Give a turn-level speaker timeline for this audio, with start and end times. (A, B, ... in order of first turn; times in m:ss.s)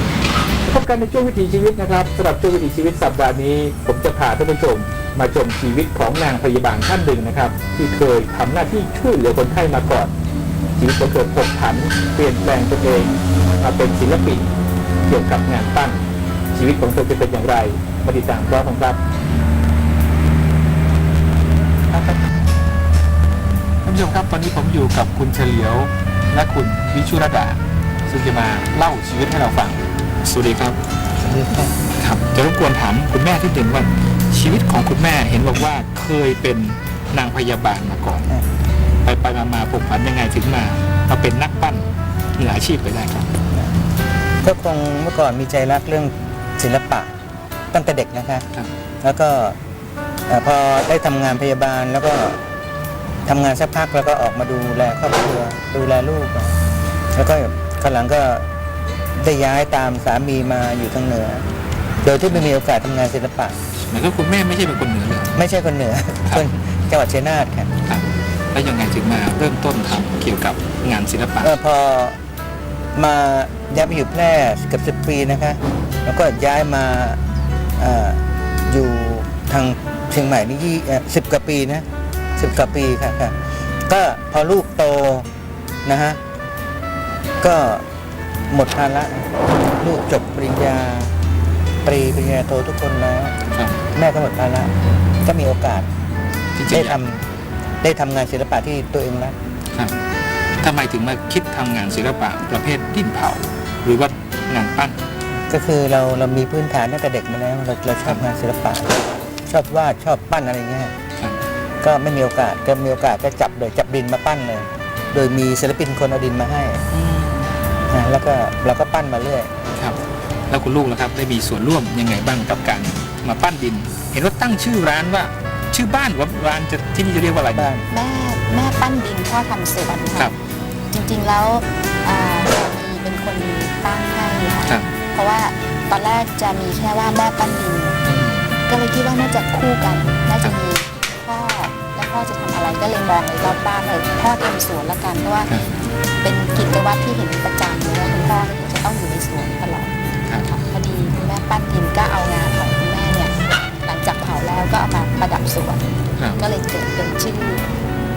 0:00.6-0:10.1 A
0:10.8-0:14.5 A
0:15.0-0:19.0 A
0:21.9-0:22.2 A
0:23.8-0:30.8 A
0:31.2-0:31.8 B
0:32.0-0:38.3 A
0:39.0-0:41.8 A
0:42.4-0:43.3 A
0:44.4-0:47.1 B
0:47.7-0:48.5 B
0:49.0-0:49.6 B
0:50.3-0:52.4 B
0:53.2-0:56.6 B
0:57.1-0:58.5 B
0:59.2-1:01.4 B
1:02.0-1:03.6 B
1:03.9-1:05.4 A
1:05.3-1:07.7 B
1:07.9-1:11.6 A
1:11.4-1:12.2 B
1:12.9-1:17.2 B
1:17.8-1:21.8 B
1:22.4-1:25.3 B
1:25.8-1:26.2 B
1:27.4-1:27.8 B
1:28.5-1:31.1 B
1:31.8-1:33.3 B
1:33.5-1:33.8 A
1:33.9-1:35.9 B
1:36.5-1:37.0 A
1:36.7-1:37.2 B
1:37.8-1:39.3 B
1:39.7-1:40.0 A
1:40.6-1:45.0 A
1:45.5-1:50.9 B
1:51.8-1:56.8 B
1:56.9-1:57.5 A
1:57.9-1:59.5 B
1:59.8-2:07.7 A
2:07.5-2:07.8 B
2:07.9-2:10.3 C
2:10.9-2:18.0 C
2:18.0-2:18.5 A
2:18.6-2:25.5 C
2:25.5-2:25.7 A
2:26.2-2:35.8 C
2:36.4-2:37.6 C